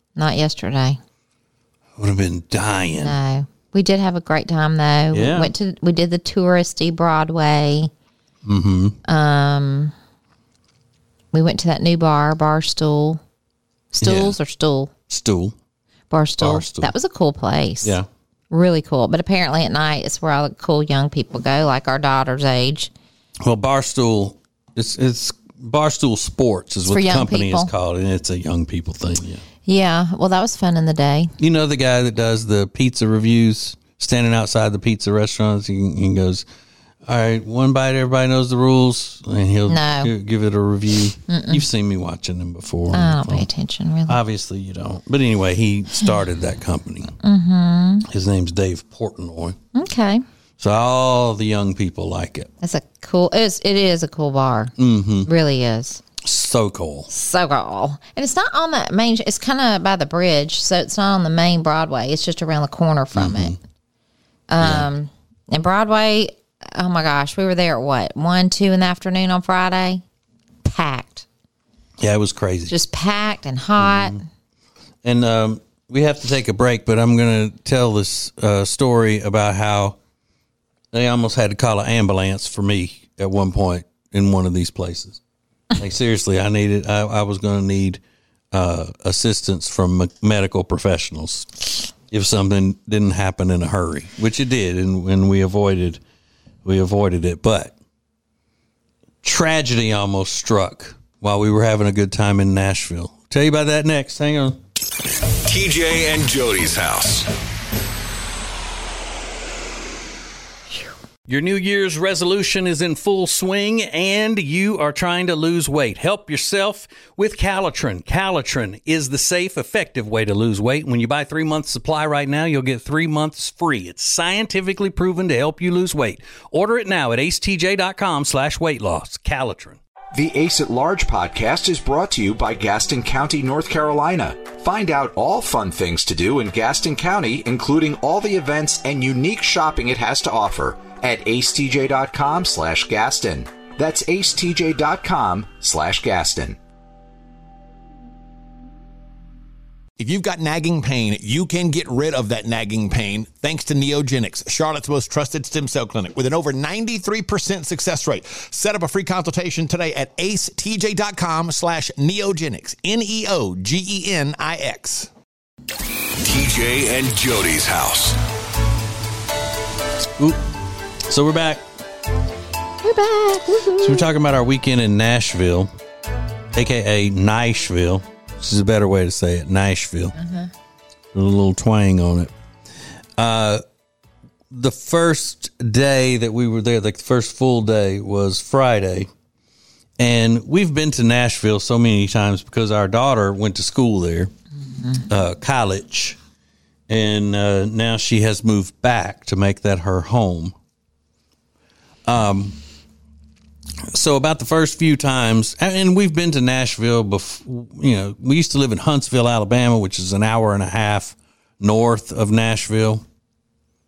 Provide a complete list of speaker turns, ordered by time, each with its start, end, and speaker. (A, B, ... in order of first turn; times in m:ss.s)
0:00.2-0:01.0 A
0:02.0-0:03.2 B
0:03.0-0:07.9 A
0:05.1-0:05.5 B
0:08.4-0:09.0 B
0:09.0-0:09.9 A
0:11.3-0:13.2 A
0:13.9-0:14.9 A
0:14.0-0:14.4 B
0:15.1-0:15.5 B
0:16.1-0:18.0 A
0:16.4-0:16.9 B
0:18.5-0:22.9 A
0:23.4-0:29.4 B
0:26.8-0:27.7 A
0:29.6-0:31.3 A
0:31.4-0:36.4 B
0:37.0-0:43.5 B
0:39.7-0:40.1 A
0:41.3-0:41.6 A
0:42.9-0:44.2 A
0:44.1-0:47.1 B
0:47.2-0:48.0 A
0:48.1-0:49.6 B
0:49.7-0:50.2 A
0:50.6-0:52.5 B
0:52.6-0:54.7 A
0:54.8-0:55.3 B
0:55.2-0:56.0 A
0:56.2-0:57.1 B
0:57.1-1:03.6 A
1:03.1-1:03.6 B
1:04.5-1:10.0 A
1:04.6-1:04.9 B
1:10.6-1:11.2 A
1:12.0-1:12.7 B
1:12.7-1:14.2 A
1:13.8-1:14.2 B
1:15.0-1:20.0 B
1:20.9-1:25.2 B
1:25.8-1:28.0 B
1:28.5-1:31.5 B
1:32.1-1:36.0 B
1:36.6-1:37.7 B
1:39.2-1:44.6 B
1:45.4-1:47.3 C
1:51.3-2:09.8 B
2:10.1-2:26.6 D
2:30.0-2:45.1 E
2:46.2-2:48.2 C
2:50.2-2:50.5 B
2:51.1-2:51.6 B
2:52.8-2:54.1 A
2:53.8-2:55.7 B
2:56.5-3:00.1 B
3:00.2-3:00.5 A
3:01.1-3:02.3 B
3:03.2-3:03.6 B
3:04.5-3:09.1 B
3:10.0-3:14.3 B
3:15.1-3:16.2 B
3:16.9-3:20.5 B
3:22.0-3:22.6 B
3:23.9-3:33.0 B